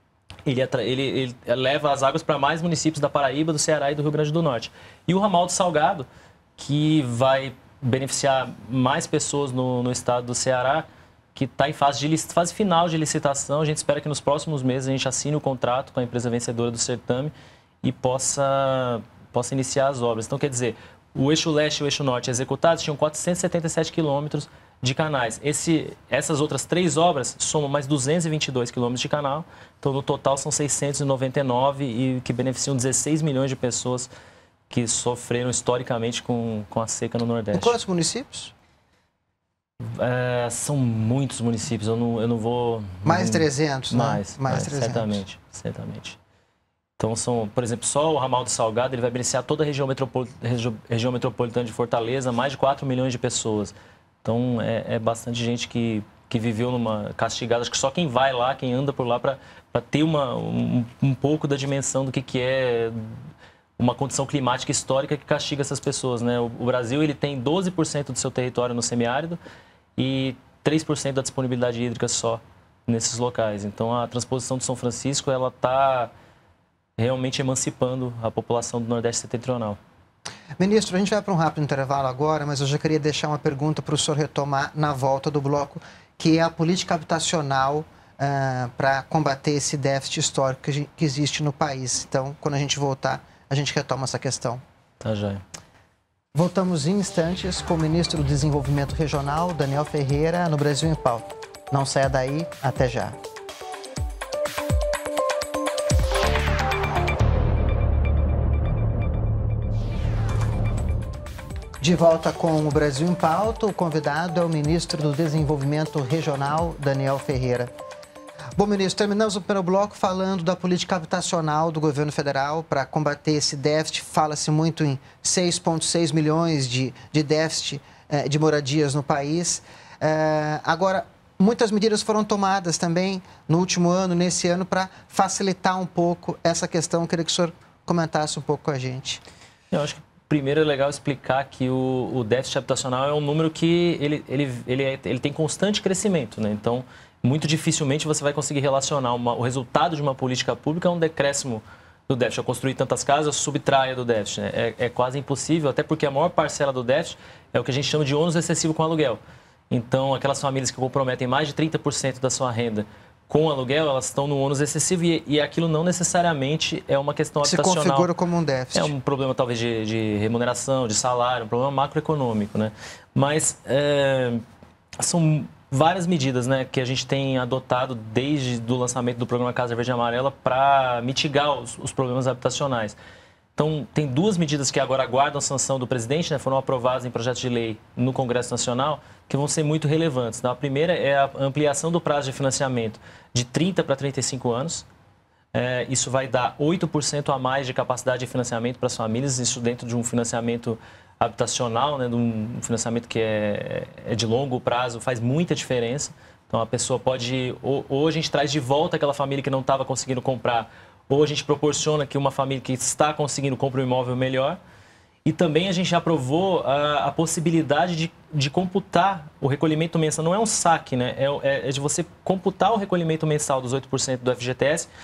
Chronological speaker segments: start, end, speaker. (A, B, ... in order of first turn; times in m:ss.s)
0:00.4-0:34.1 A
0:34.7-0:37.8 A
0:37.5-0:38.5 B
0:39.8-0:46.2 A
0:43.0-0:45.2 B
0:47.0-1:03.2 A
1:03.8-1:09.4 A
1:10.0-1:16.1 A
1:17.0-1:19.8 A
1:20.6-1:34.6 B
1:35.0-1:35.4 A
1:36.3-1:43.2 B
1:51.8-1:57.7 B
1:58.6-2:19.2 B
2:19.7-2:39.2 A
2:39.7-2:48.1 A
2:47.4-2:48.9 B
2:48.7-2:54.4 A
2:55.0-3:03.0 A
3:03.6-3:14.8 A
3:15.5-3:34.6 A
3:35.2-3:44.9 A